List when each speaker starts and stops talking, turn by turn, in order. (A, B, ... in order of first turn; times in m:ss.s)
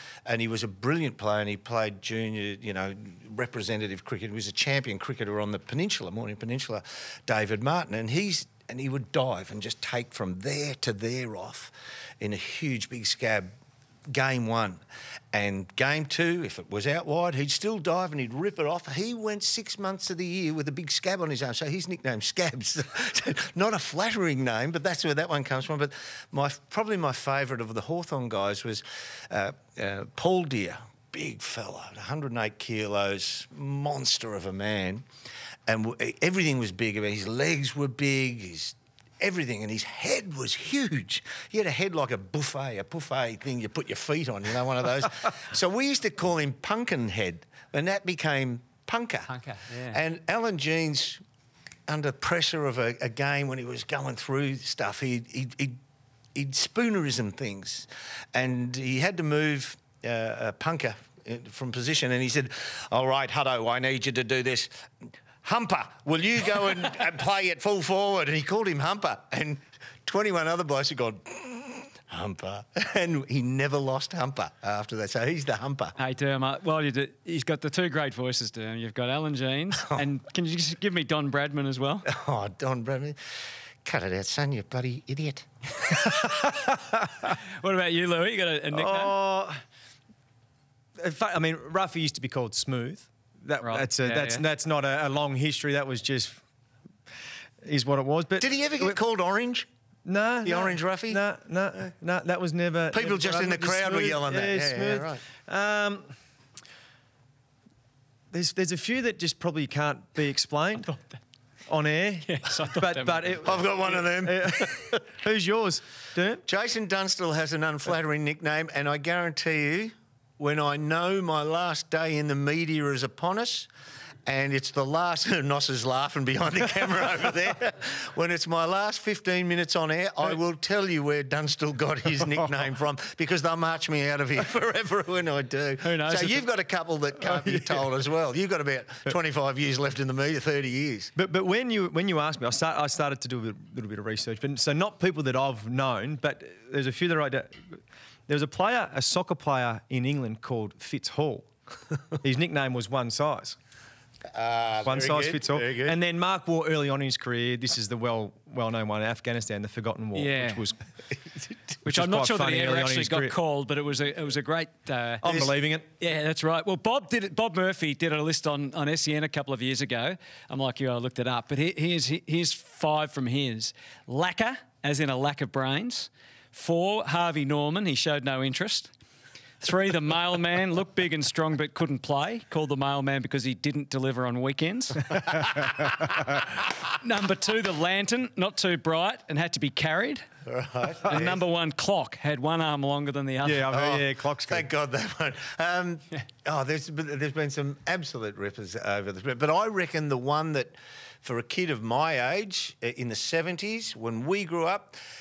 0:00.3-0:13.5 A
0:14.1-0:14.8 A
0:15.3-0:35.0 A
0:35.7-0:49.3 A
0:49.3-0:50.0 B
0:49.9-0:51.2 A
0:51.9-0:55.8 A
0:56.4-1:04.7 A
1:05.4-1:16.0 A
1:16.0-1:22.1 B
1:22.1-1:23.2 A
1:23.8-1:26.1 A
1:27.3-1:29.2 B
1:28.7-1:29.6 C
1:31.0-1:36.4 C
1:33.6-1:34.4 B
1:37.6-1:39.0 C
1:38.4-1:39.7 A
1:40.1-1:46.1 C
1:40.4-1:41.2 A
1:42.9-1:45.2 A
1:48.3-1:50.9 C
1:51.7-1:56.4 C
1:52.2-1:53.4 B
1:53.4-1:55.1 A
1:56.5-2:03.7 A
2:04.3-2:21.1 A
2:15.8-2:16.4 B
2:21.2-2:31.5 C
2:32.2-2:33.6 C
2:34.3-2:36.0 A
2:34.8-2:40.8 C
2:40.1-2:40.6 B
2:41.8-2:43.4 C
2:41.9-2:45.2 B
2:45.2-2:45.8 C
2:45.2-2:45.5 A
2:46.0-2:58.9 B
2:59.6-3:05.5 B
3:06.9-3:10.2 B
3:10.5-3:11.4 A
3:11.0-3:13.7 B
3:13.4-3:14.7 C
3:13.7-3:25.0 A